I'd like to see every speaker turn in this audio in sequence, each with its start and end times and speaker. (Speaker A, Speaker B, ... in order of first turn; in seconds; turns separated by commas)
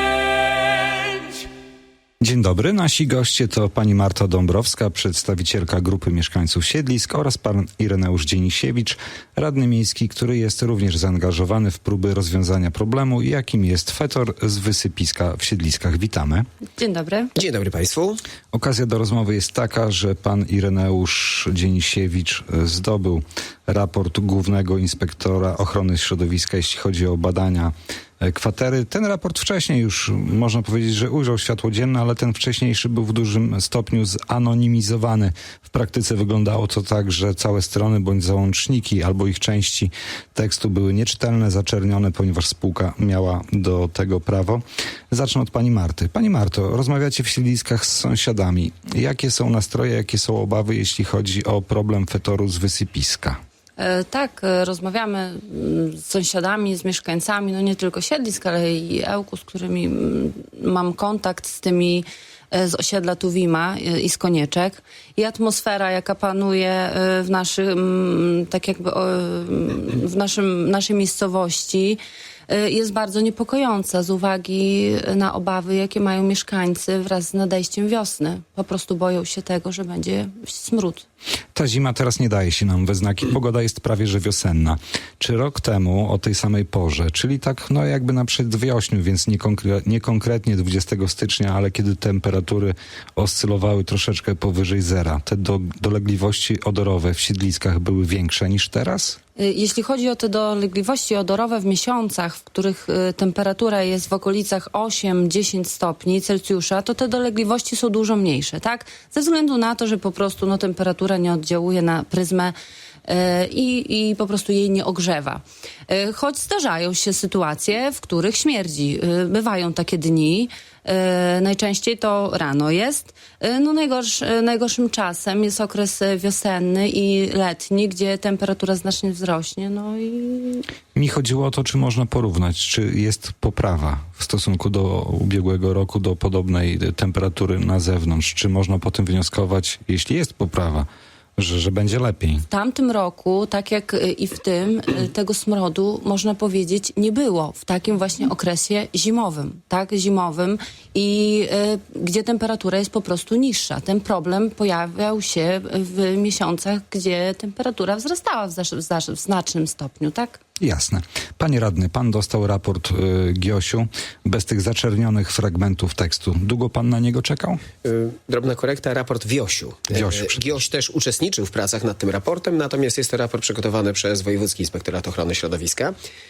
Speaker A: 2.2-16.4, Speaker B: 16.8-17.3, Speaker C: 17.3-18.2, Speaker A: 18.5-53.4, Speaker B: 53.8-81.0, Speaker A: 81.5-99.2, Speaker B: 99.4-130.6, Speaker A: 130.9-142.4, Speaker B: 142.5-160.4, Speaker A: 160.6-167.6, Speaker C: 167.8-175.9, Speaker A: 169.9-170.5